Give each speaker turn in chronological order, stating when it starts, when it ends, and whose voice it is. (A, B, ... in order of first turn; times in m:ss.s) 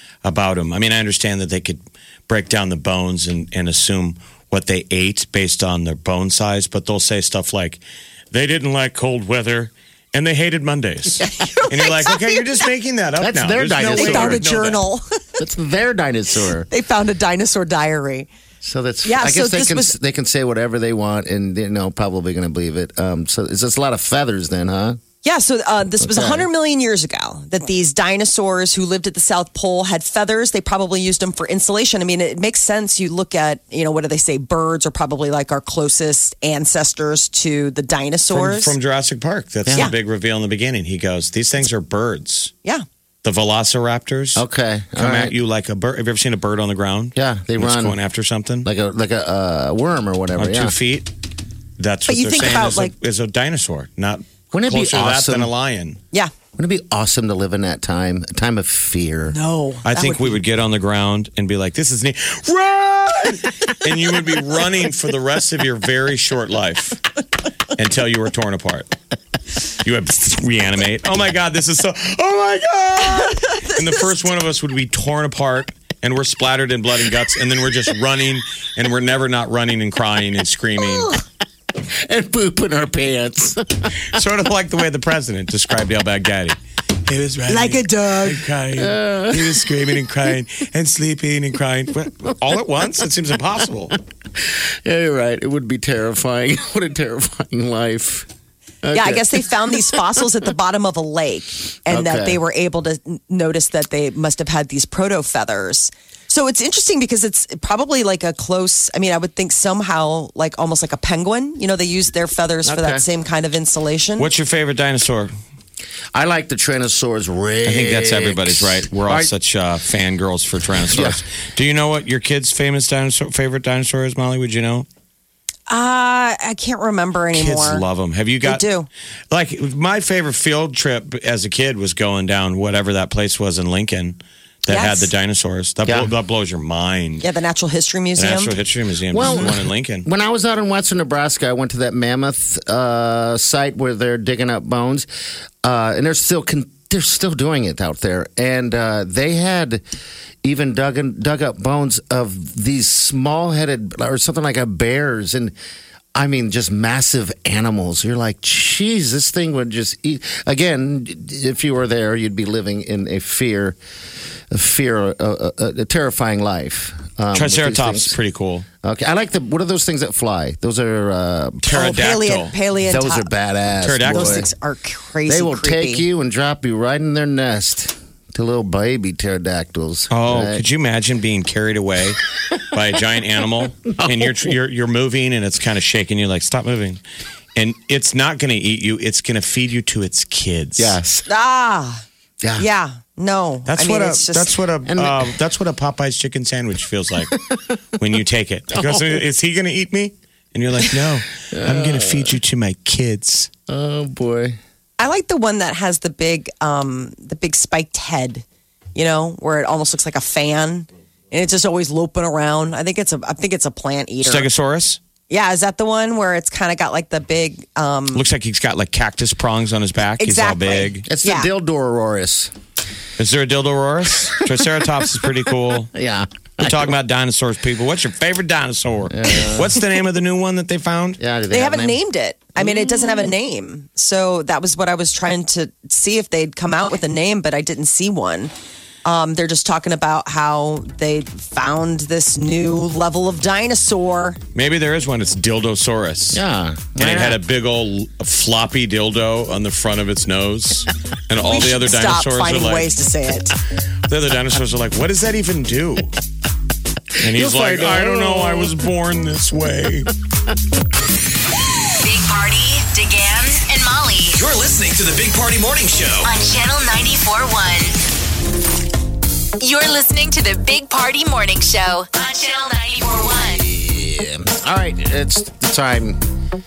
0:00.2-0:14.8 A
0:11.2-0:12.6 B
0:13.2-0:14.4 C
0:13.8-0:15.2 B
0:15.4-0:16.7 C
0:16.7-0:18.3 B
0:18.6-0:25.0 C
0:19.0-0:20.0 B
0:25.2-0:38.8 B
0:26.0-0:26.5 C
0:38.3-0:42.5 A
0:39.7-0:39.9 C
0:43.2-0:44.4 A
0:44.4-0:45.4 C
0:45.0-0:48.7 A
0:47.2-0:48.0 C
0:48.6-0:50.8 C
0:50.4-0:51.1 A
0:51.8-0:56.0 A
0:52.1-0:53.0 B
0:54.5-0:55.5 C
0:56.6-0:59.4 C
0:59.3-1:00.4 B
0:59.8-1:07.0 A
1:07.7-1:08.9 A
1:09.8-1:21.2 A
1:21.8-1:24.0 C
1:24.1-1:34.0 A
1:27.5-1:28.3 B
1:28.8-1:29.7 C
1:34.8-1:38.3 C
1:38.8-1:39.5 C
1:38.9-1:54.3 B
1:41.9-1:42.4 C
1:52.6-1:53.1 C
1:54.2-1:55.3 A
1:56.1-1:59.3 C
1:57.6-2:04.9 A
2:00.8-2:01.2 C
2:05.7-2:07.8 B
2:07.3-2:08.6 A
2:08.4-2:08.9 B
2:09.3-2:17.3 A
2:14.7-2:15.1 B
2:17.2-2:18.6 B
2:18.2-2:20.1 A
2:19.1-2:25.1 C
2:19.2-2:19.5 B
2:25.6-2:29.8 C
2:30.4-2:35.6 C
2:36.2-2:43.8 C
2:44.5-2:48.2 C
2:47.3-2:48.7 A
2:48.8-2:51.8 C
2:51.6-2:52.6 A
2:51.7-2:53.3 B
2:52.8-2:54.5 C
2:53.8-2:54.5 A
2:54.1-2:56.1 B
2:55.3-3:00.6 C
3:00.1-3:07.0 A
3:04.0-3:04.4 C
3:07.6-3:11.0 A
3:10.8-3:11.3 C
3:11.3-3:12.0 B
3:12.4-3:12.7 C
3:12.6-3:14.5 B
3:13.7-3:17.4 A
3:14.9-3:15.3 C
3:17.3-3:18.0 C
3:18.0-3:23.5 A
3:18.7-3:19.2 C
3:21.5-3:22.4 C
3:23.7-3:24.6 C
3:25.0-3:34.5 B
3:34.2-3:35.0 A
3:35.3-3:38.2 B
3:38.1-3:41.1 A
3:40.2-3:41.5 B
3:41.0-3:42.5 C
3:43.2-3:45.9 A
3:45.9-3:46.9 C
3:46.6-3:51.2 A
3:49.1-3:49.7 C
3:51.2-3:52.0 C
3:51.5-3:58.5 B
3:59.0-4:04.4 B
4:04.6-4:06.4 A
4:06.3-4:07.4 C
4:07.0-4:12.9 A
4:11.4-4:13.5 B
4:14.1-4:16.2 A
4:17.2-4:20.1 A
4:17.3-4:18.8 C
4:22.0-4:24.5 D
4:24.3-4:26.4 E
4:26.2-4:28.0 D
4:29.6-4:33.6 D
4:33.5-4:36.2 C